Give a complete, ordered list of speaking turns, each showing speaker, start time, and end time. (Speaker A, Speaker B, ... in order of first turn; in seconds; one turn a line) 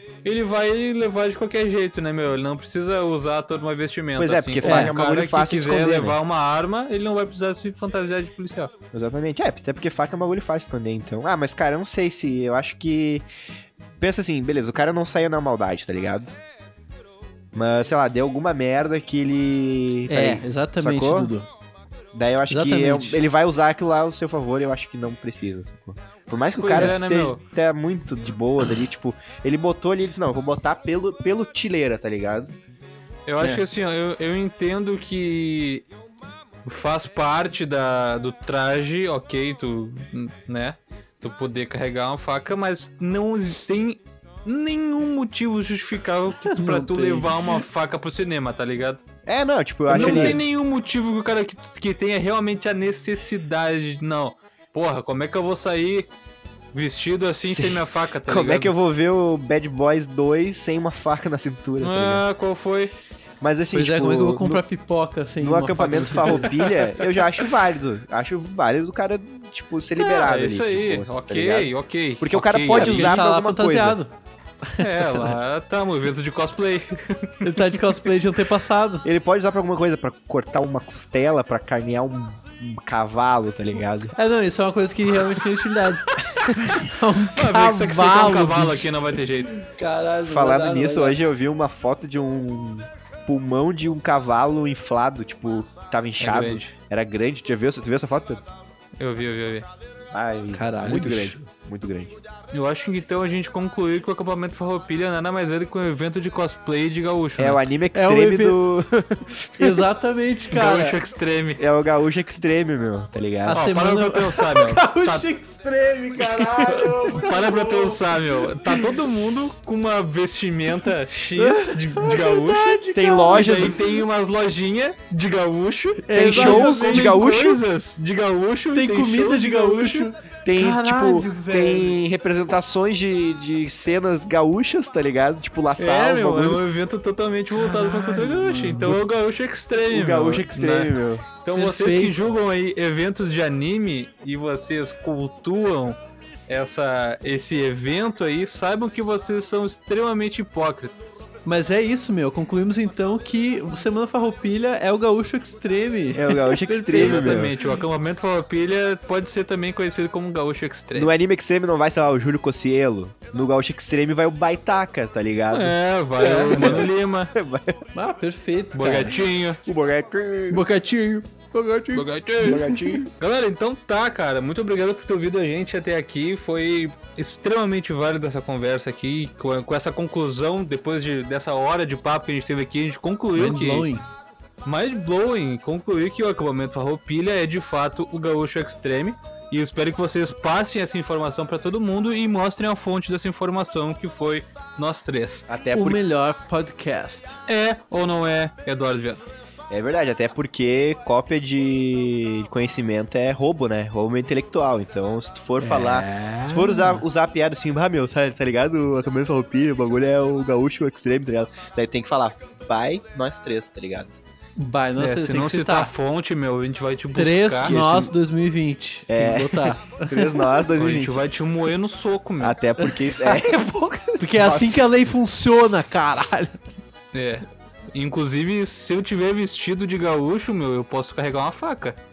Speaker A: 0.2-8.7
Speaker B: 4.2-6.2
Speaker C: 4.6-4.9
Speaker B: 8.9-13.3
Speaker B: 14.0-16.4
Speaker B: 17.5-21.3
Speaker C: 20.1-21.5
Speaker B: 22.1-32.5
Speaker C: 22.5-23.2
Speaker A: 26.6-27.4
Speaker A: 33.3-35.9
Speaker A: 36.6-49.0
Speaker C: 46.4-47.6
Speaker B: 49.3-50.4
Speaker C: 49.9-50.4
Speaker A: 49.9-56.1
Speaker A: 56.7-58.7
Speaker B: 57.4-62.2
Speaker A: 61.8-62.9
Speaker B: 63.4-64.6
Speaker C: 63.7-66.5
Speaker B: 65.4-74.0
Speaker A: 66.2-67.5
Speaker A: 70.0-73.2
Speaker C: 72.7-74.1
Speaker C: 74.7-75.4
Speaker A: 74.8-78.1
Speaker C: 77.4-79.1
Speaker B: 79.0-84.1
Speaker C: 84.2-88.9
Speaker A: 87.3-89.6
Speaker C: 89.5-91.2
Speaker B: 90.3-98.4
Speaker A: 96.2-96.8
Speaker A: 99.0-99.7
Speaker B: 100.1-102.2
Speaker C: 100.5-101.4
Speaker A: 102.5-107.6
Speaker B: 107.4-109.8
Speaker C: 108.0-108.6
Speaker C: 109.6-111.0
Speaker A: 110.5-111.6
Speaker B: 111.6-113.7
Speaker C: 113.5-118.5
Speaker A: 113.5-115.3
Speaker B: 116.4-116.9
Speaker A: 116.7-130.1
Speaker C: 121.4-123.8
Speaker B: 122.9-123.9
Speaker C: 126.0-127.2
Speaker B: 126.1-127.6
Speaker C: 128.7-132.0
Speaker B: 130.4-136.6
Speaker A: 135.8-146.0
Speaker C: 137.6-139.0
Speaker B: 139.8-141.2
Speaker C: 141.6-142.2
Speaker A: 146.5-151.3
Speaker C: 151.4-157.5
Speaker B: 156.2-157.6
Speaker A: 156.9-161.1
Speaker B: 160.9-167.8
Speaker A: 165.5-167.3
Speaker C: 166.4-166.8
Speaker C: 167.9-169.2
Speaker A: 168.8-169.6
Speaker B: 169.6-170.6
Speaker C: 170.5-173.0
Speaker A: 171.9-183.9
Speaker B: 172.4-173.1
Speaker C: 183.3-184.1
Speaker A: 184.7-195.5
Speaker B: 195.5-196.0
Speaker C: 195.7-197.4
Speaker A: 197.5-199.3
Speaker B: 199.7-214.2
Speaker C: 205.6-207.0
Speaker C: 214.6-215.9
Speaker A: 215.0-217.8
Speaker C: 217.2-220.7
Speaker B: 217.6-218.1
Speaker B: 219.1-221.2
Speaker A: 220.8-222.6
Speaker B: 222.4-224.8
Speaker C: 222.8-223.4
Speaker C: 224.2-226.8
Speaker A: 227.1-232.0